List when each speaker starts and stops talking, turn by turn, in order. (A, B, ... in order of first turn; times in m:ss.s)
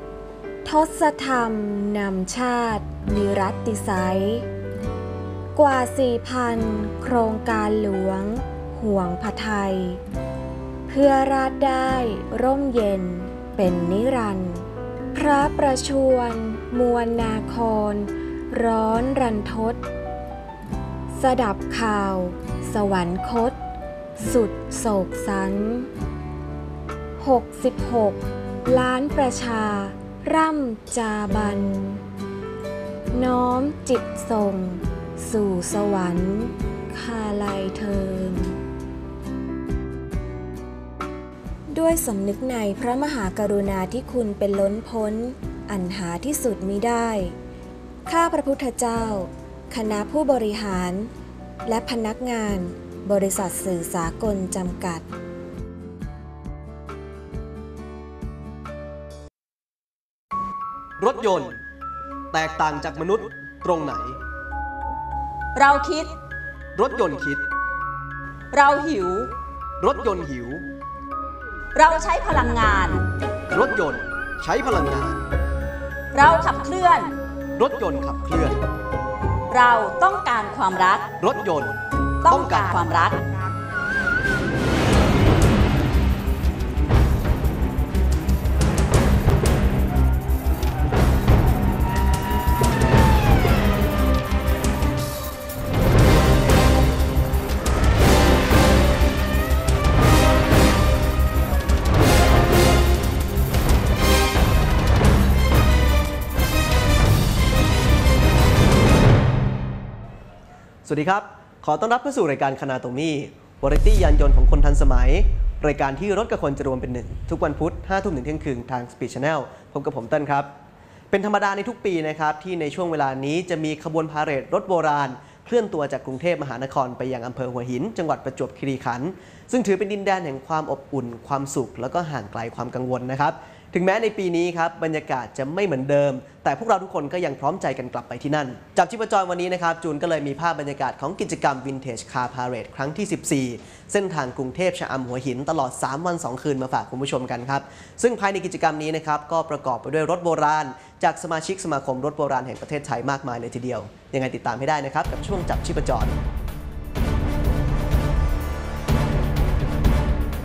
0:00.6-0:04.4 A
0:05.6-0:10.0 A
0:10.9-0:19.8 A
0:21.1-0:23.6 A
0:24.2-0:25.9 A
0:27.2-0:32.0 A
0:33.1-0:38.6 A
0:41.7-0:47.4 A
0:48.1-0:51.1 A
0:51.7-0:55.1 A
1:01.0-1:01.6 B
1:02.3-1:04.2 B
1:05.6-1:06.1 C
1:06.8-1:07.4 B
1:08.5-1:09.3 C
1:09.8-1:10.7 B
1:11.7-1:13.0 C
1:13.5-1:15.2 B
1:16.1-1:17.2 C
1:17.6-1:18.6 B
1:19.5-1:21.1 C
1:21.2-1:22.8 B
1:22.2-1:23.2 C
1:50.8-2:00.5 B
2:01.1-2:36.2 B